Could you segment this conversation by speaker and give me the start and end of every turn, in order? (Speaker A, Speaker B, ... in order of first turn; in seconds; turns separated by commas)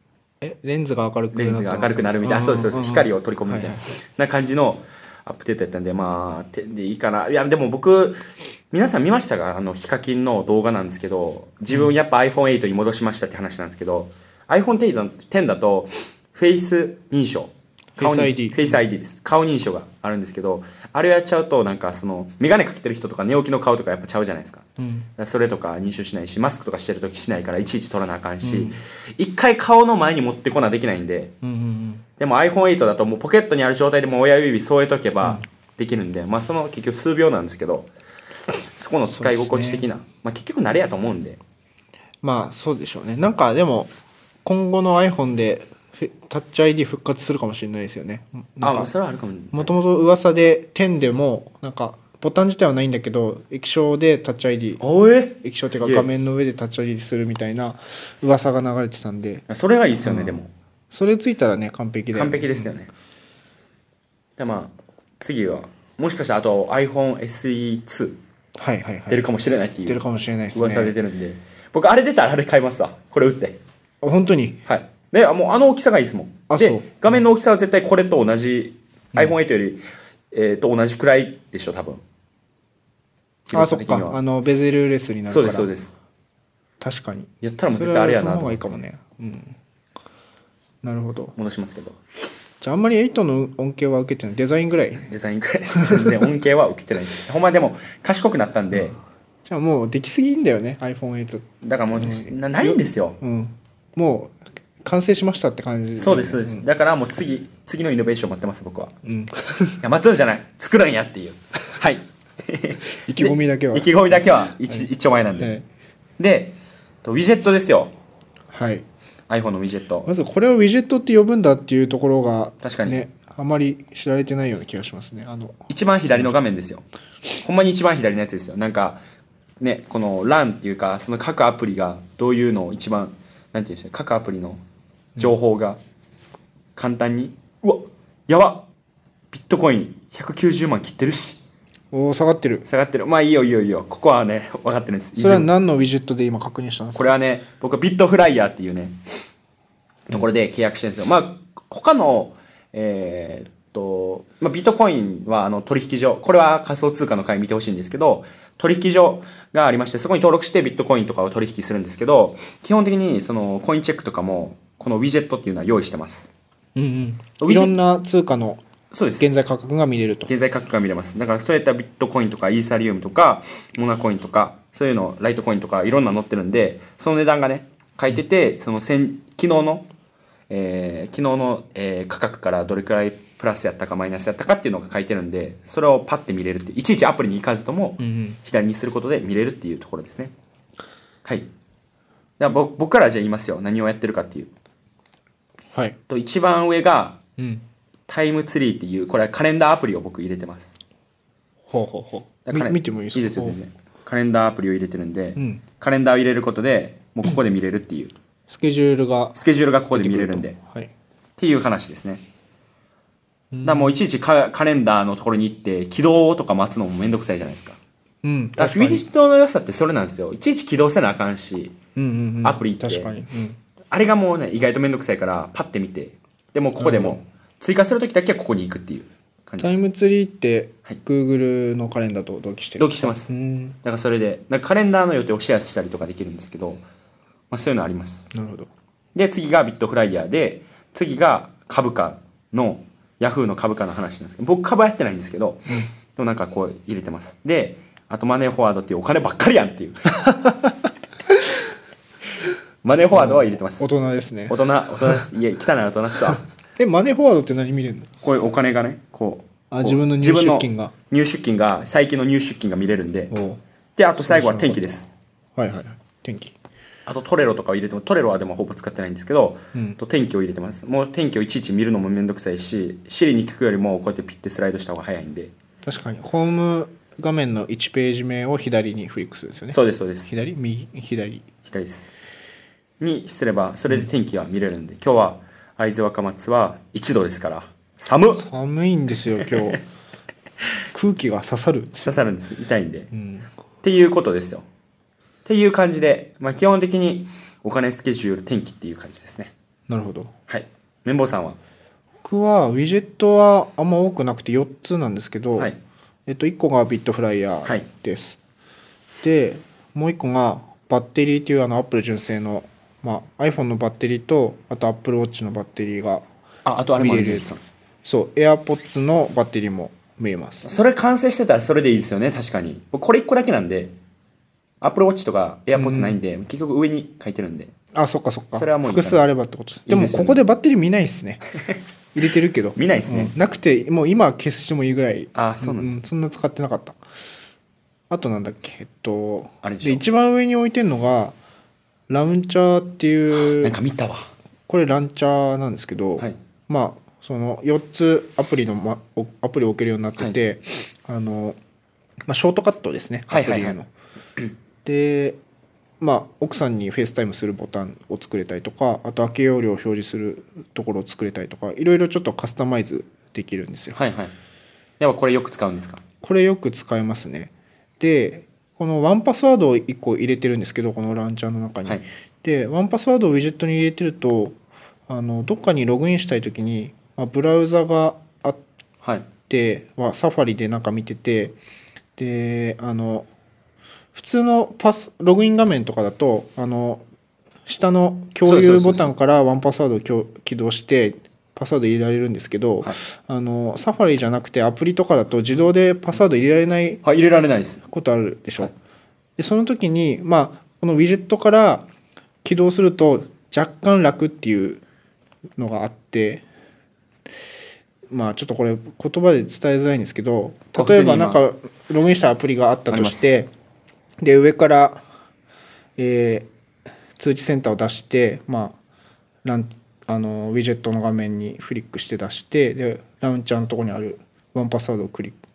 Speaker A: 0.4-3.9, Speaker B: 1.3-24.6, Speaker A: 18.0-18.8, Speaker A: 24.8-25.1, Speaker B: 25.2-31.3, Speaker A: 28.4-28.8, Speaker A: 31.4-32.0, Speaker B: 32.2-37.9, Speaker B: 38.6-41.4, Speaker A: 39.1-39.9, Speaker A: 42.2-43.9, Speaker A: 44.5-48.9, Speaker B: 48.6-49.7, Speaker A: 49.5-54.8, Speaker B: 54.8-56.1, Speaker A: 55.4-59.5, Speaker B: 59.5-60.5, Speaker A: 60.0-60.4, Speaker A: 60.9-62.7, Speaker B: 62.1-62.9, Speaker B: 64.4-68.2, Speaker A: 68.6-69.2, Speaker B: 69.1-73.6, Speaker A: 69.9-71.0, Speaker A: 74.0-74.6, Speaker B: 74.7-82.0, Speaker A: 76.5-77.0, Speaker B: 83.5-84.2, Speaker A: 83.5-85.7, Speaker B: 85.3-86.0, Speaker A: 86.8-89.6, Speaker B: 87.4-88.7, Speaker A: 90.8-91.3, Speaker B: 91.4-92.0, Speaker A: 92.6-95.1, Speaker B: 95.1-99.0, Speaker A: 95.8-96.1, Speaker A: 98.7-106.7, Speaker B: 101.6-103.2, Speaker B: 106.0-108.9, Speaker A: 109.0-109.8, Speaker B: 109.8-115.5, Speaker A: 113.0-114.9, Speaker A: 115.4-115.7, Speaker B: 116.2-117.9, Speaker A: 118.5-118.8, Speaker B: 119.3-120.1, Speaker A: 120.1-126.3, Speaker B: 122.6-123.0, Speaker B: 125.7-126.8, Speaker B: 127.4-129.0, Speaker B: 129.6-134.6, Speaker B: 135.2-135.8, Speaker B: 136.8-138.7, Speaker B: 139.3-141.4, Speaker A: 141.9-142.7, Speaker B: 142.7-145.5, Speaker A: 145.2-147.1, Speaker B: 146.9-149.0, Speaker B: 150.1-166.3, Speaker A: 166.8-168.6, Speaker B: 167.4-167.8, Speaker B: 168.9-169.5, Speaker A: 169.2-170.3, Speaker B: 170.3-179.9, Speaker B: 180.5-190.3, Speaker A: 188.0-188.4, Speaker B: 191.2-191.5, Speaker B: 192.4-194.5, Speaker B: 196.1-197.2, Speaker A: 197.4-197.6, Speaker B: 198.1-200.7, Speaker A: 201.7-203.6, Speaker B: 202.5-208.1, Speaker A: 205.4-205.6, Speaker A: 208.5-209.4, Speaker B: 209.3-210.6, Speaker A: 209.9-210.9, Speaker B: 211.4-212.2, Speaker A: 213.5-213.9, Speaker B: 213.6-217.8, Speaker A: 218.2-219.0, Speaker B: 218.6-221.8, Speaker A: 222.0-223.6, Speaker B: 222.4-223.1, Speaker B: 223.9-229.8, Speaker A: 226.8-227.2, Speaker A: 229.6-233.8, Speaker B: 232.8-233.3, Speaker B: 233.8-236.8, Speaker B: 237.5-238.3, Speaker A: 238.3-238.7, Speaker B: 239.2-250.1, Speaker A: 250.3-250.7, Speaker B: 252.8-253.9, Speaker A: 253.1-255.2, Speaker B: 254.5-256.4, Speaker A: 256.8-258.1, Speaker B: 258.2-263.3, Speaker A: 259.7-260.9, Speaker A: 263.3-263.6, Speaker B: 264.0-265.1, Speaker A: 264.2-265.0, Speaker A: 265.6-266.6, Speaker B: 267.1-275.5, Speaker A: 275.8-281.5, Speaker B: 279.7-280.3, Speaker B: 281.6-282.1, Speaker B: 283.0-288.5, Speaker A: 288.3-289.8, Speaker A: 290.9-292.3, Speaker B: 292.0-293.1, Speaker A: 293.1-293.5, Speaker B: 293.8-294.7, Speaker B: 295.4-299.5, Speaker A: 299.9-300.3, Speaker B: 300.5-301.6, Speaker A: 302.2-305.7, Speaker A: 306.3-308.4, Speaker A: 309.2-316.2, Speaker B: 316.6-317.6, Speaker A: 317.0-317.5, Speaker A: 318.0-320.7, Speaker B: 320.6-323.9, Speaker B: 324.8-327.7, Speaker A: 325.8-326.2, Speaker A: 327.9-331.5, Speaker B: 328.6-329.2, Speaker B: 329.9-330.4, Speaker A: 332.1-337.0, Speaker B: 332.8-333.3, Speaker B: 335.4-336.0, Speaker A: 338.1-341.4, Speaker B: 339.6-340.0, Speaker A: 342.1-343.8, Speaker B: 343.4-344.3, Speaker A: 344.7-351.6, Speaker A: 352.3-353.9, Speaker B: 353.3-353.8, Speaker A: 354.9-355.4, Speaker A: 356.0-364.0, Speaker B: 363.9-364.3, Speaker B: 365.0-366.0, Speaker A: 366.2-374.6, Speaker A: 375.1-378.6, Speaker B: 379.0-379.3, Speaker A: 379.5-381.6, Speaker A: 382.2-383.3, Speaker A: 384.1-387.0, Speaker A: 387.7-397.0, Speaker B: 388.4-389.1, Speaker B: 397.0-397.8, Speaker A: 397.9-398.7, Speaker A: 399.4-401.9, Speaker A: 402.4-404.8, Speaker A: 405.6-406.4, Speaker A: 408.1-413.5, Speaker B: 410.8-411.4, Speaker B: 412.9-413.3, Speaker A: 414.2-415.0, Speaker A: 416.0-416.5, Speaker A: 417.2-418.8, Speaker A: 419.4-425.4